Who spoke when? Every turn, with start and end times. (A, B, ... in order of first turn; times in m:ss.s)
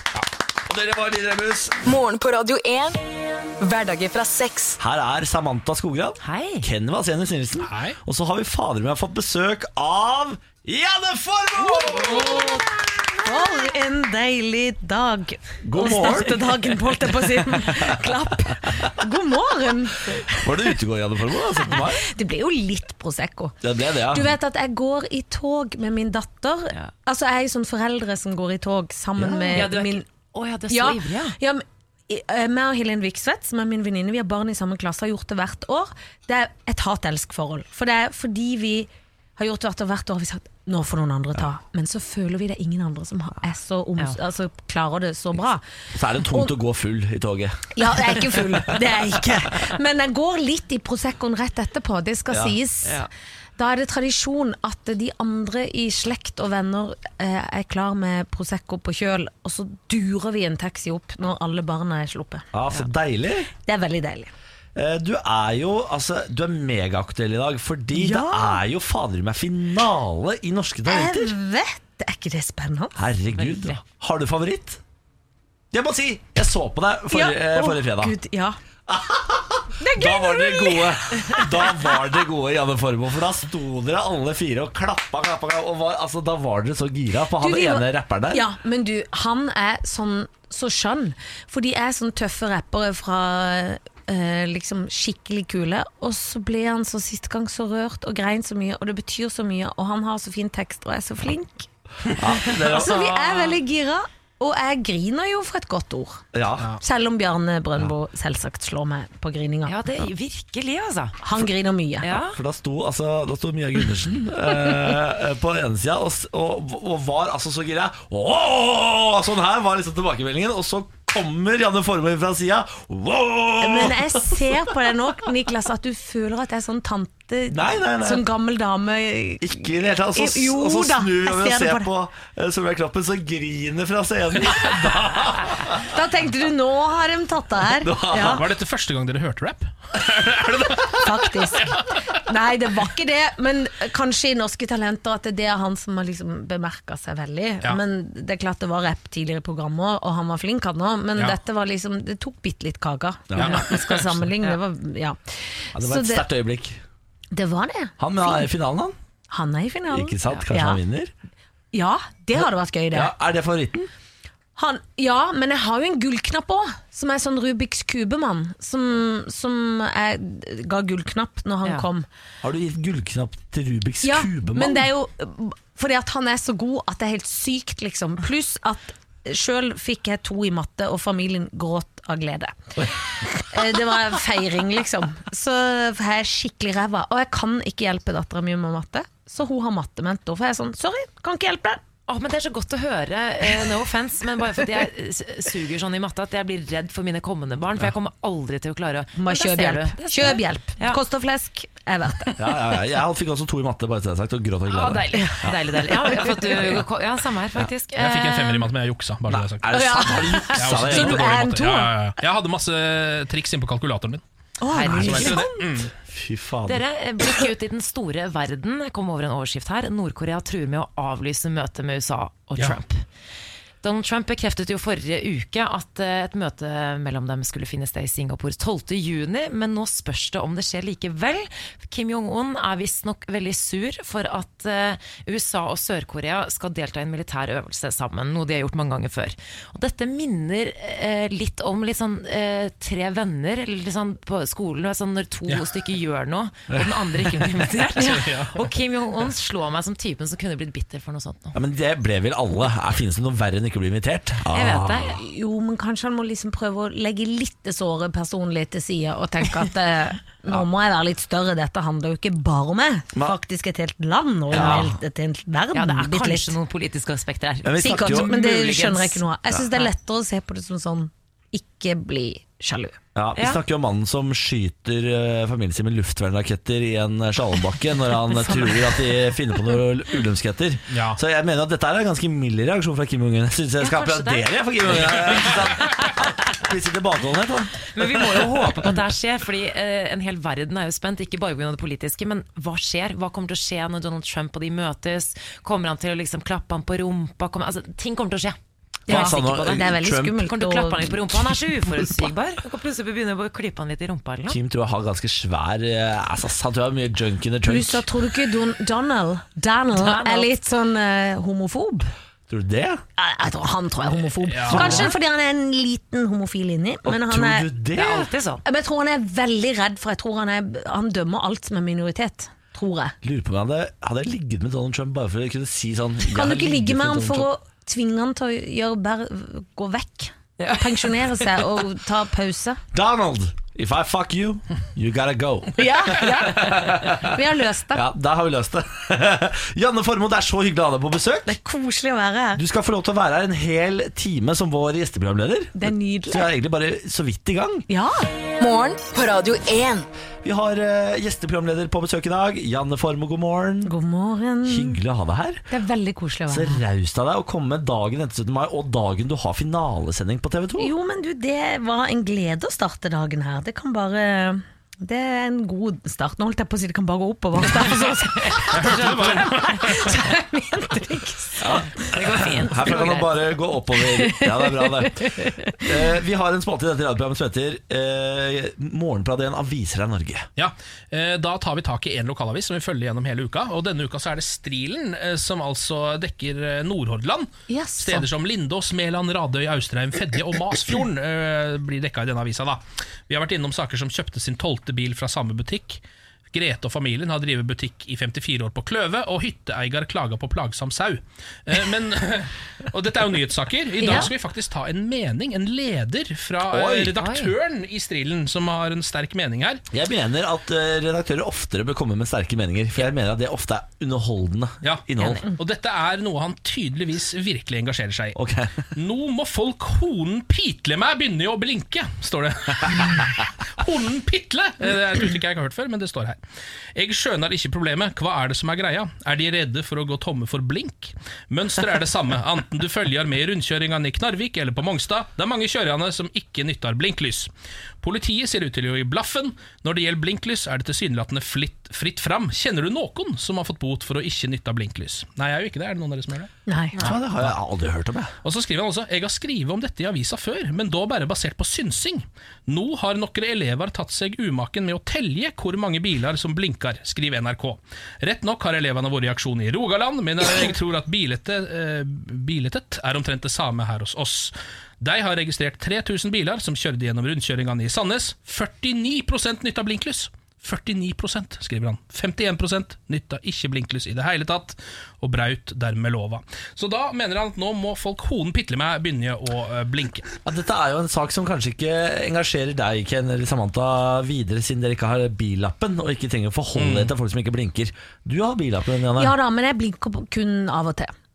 0:00.6-0:01.8 A
0:01.8-0:03.0 B
0:03.6-0:04.8 B
0:04.8-0:12.6 A
0:06.2-0:06.7 C
0:07.6-0:08.0 D
0:12.1-0:20.7 E
0:12.2-0:12.5 C
0:15.6-0:16.7 A
0:17.2-0:18.1 A
0:20.4-0:22.0 A
0:22.0-0:30.0 E
0:23.6-0:24.4 A
0:29.2-0:29.7 A
0:29.5-0:31.4 C
0:30.7-0:45.6 E
0:45.9-0:48.4 A
0:47.8-0:53.1 E
0:52.3-0:52.6 A
0:52.8-0:53.1 C
0:53.6-1:02.4 E
1:02.5-1:03.5 A
1:03.5-1:04.3 E
1:04.8-1:11.3 A
1:07.9-1:08.6 E
1:10.8-1:13.0 E
1:13.0-1:14.8 A
1:13.3-1:13.8 C
1:15.7-1:18.1 A
1:17.1-1:18.6 E
1:18.9-1:28.4 A
1:19.8-1:21.9 E
1:27.4-1:41.7 E
1:42.1-1:43.0 A
1:42.6-1:43.6 C
1:42.7-1:46.2 E
1:46.3-1:46.7 A
1:46.8-1:49.8 E
1:49.6-1:51.2 C
1:51.2-1:52.1 E
1:52.0-1:52.4 C
1:52.2-2:04.9 A
2:03.6-2:09.6 E
2:07.5-2:08.3 A
2:09.4-2:15.9 A
2:10.1-2:11.9 E
2:15.7-2:18.4 E
2:17.8-2:18.4 A
2:18.1-2:21.0 D
2:21.0-2:36.3 E
2:33.3-2:33.6 A
2:33.4-2:34.2 D
2:33.4-2:34.6 C
2:35.8-2:36.8 A
2:37.3-2:38.5 E
2:38.0-2:39.0 A
2:39.3-2:40.8 E
2:39.9-2:41.1 A
2:41.7-2:43.1 E
2:42.4-2:43.9 A
2:44.6-2:52.1 E
2:52.4-2:54.9 A
2:54.0-3:11.8 E
3:12.1-3:21.0 C
3:19.1-3:22.4 E
3:22.4-3:26.1 A
3:24.7-3:28.7 C
3:28.0-3:29.7 D
3:29.3-3:31.4 A
3:29.7-3:32.0 E
3:30.6-3:34.2 D
3:34.6-3:35.7 E
3:34.7-3:35.4 C
3:34.9-3:35.9 D
3:36.1-3:36.8 A
3:36.7-3:43.1 C
3:43.8-4:11.6 C
4:06.7-4:07.0 A
4:08.0-4:08.5 D
4:11.5-4:15.1 A
4:14.5-4:15.2 C
4:15.2-4:26.6 E
4:24.5-4:24.9 A
4:24.5-4:24.9 C
4:25.7-4:29.9 C
4:27.6-4:28.5 A
4:27.8-4:33.0 E
4:33.1-4:48.9 A
4:33.4-4:33.6 C
4:38.5-4:38.9 C
4:40.9-4:41.2 D
4:43.8-4:46.1 C
4:47.9-4:59.9 C
4:59.1-5:00.4 A
4:59.1-5:01.2 E
5:00.4-5:04.6 C
5:04.5-5:08.1 A
5:07.6-5:12.1 E
5:09.9-5:10.5 C
5:12.5-5:13.0 A
5:13.2-5:17.7 E
5:14.5-5:15.0 D
5:14.7-5:15.2 A
5:17.1-5:18.3 A
5:17.9-5:18.6 C
5:18.6-5:23.2 E
5:23.2-5:27.5 A
5:26.2-5:32.8 E
5:30.6-5:31.5 C
5:32.9-5:41.6 A
5:35.8-5:38.1 E
5:41.5-5:42.6 E
5:42.6-5:47.9 A
5:45.8-5:46.5 E
5:47.9-5:48.3 E
5:48.6-5:50.1 B
5:50.4-5:53.9 A
5:53.8-5:55.0 E
5:54.6-5:55.6 A
5:55.7-5:56.8 E
5:56.5-6:00.9 A
6:00.8-6:12.1 E
6:08.3-6:10.1 C
6:08.7-6:10.0 D
6:11.6-6:13.5 C
6:11.6-6:20.5 A
6:14.0-6:16.1 E
6:20.6-6:36.0 D
6:27.7-6:28.3 E
6:36.5-6:49.8 D
6:44.0-6:44.3 E
6:46.7-6:47.2 A
6:47.2-6:47.5 C
6:49.9-6:55.4 A
6:54.8-6:58.4 D
6:58.4-6:58.8 A
6:58.9-7:06.4 D
7:06.9-7:17.5 D
7:18.0-7:26.5 D
7:26.6-7:27.0 E
7:27.0-7:28.3 A
7:27.0-7:27.6 D
7:28.4-8:00.3 D
8:00.4-8:09.3 A
8:06.8-8:07.1 D
8:09.2-8:11.1 E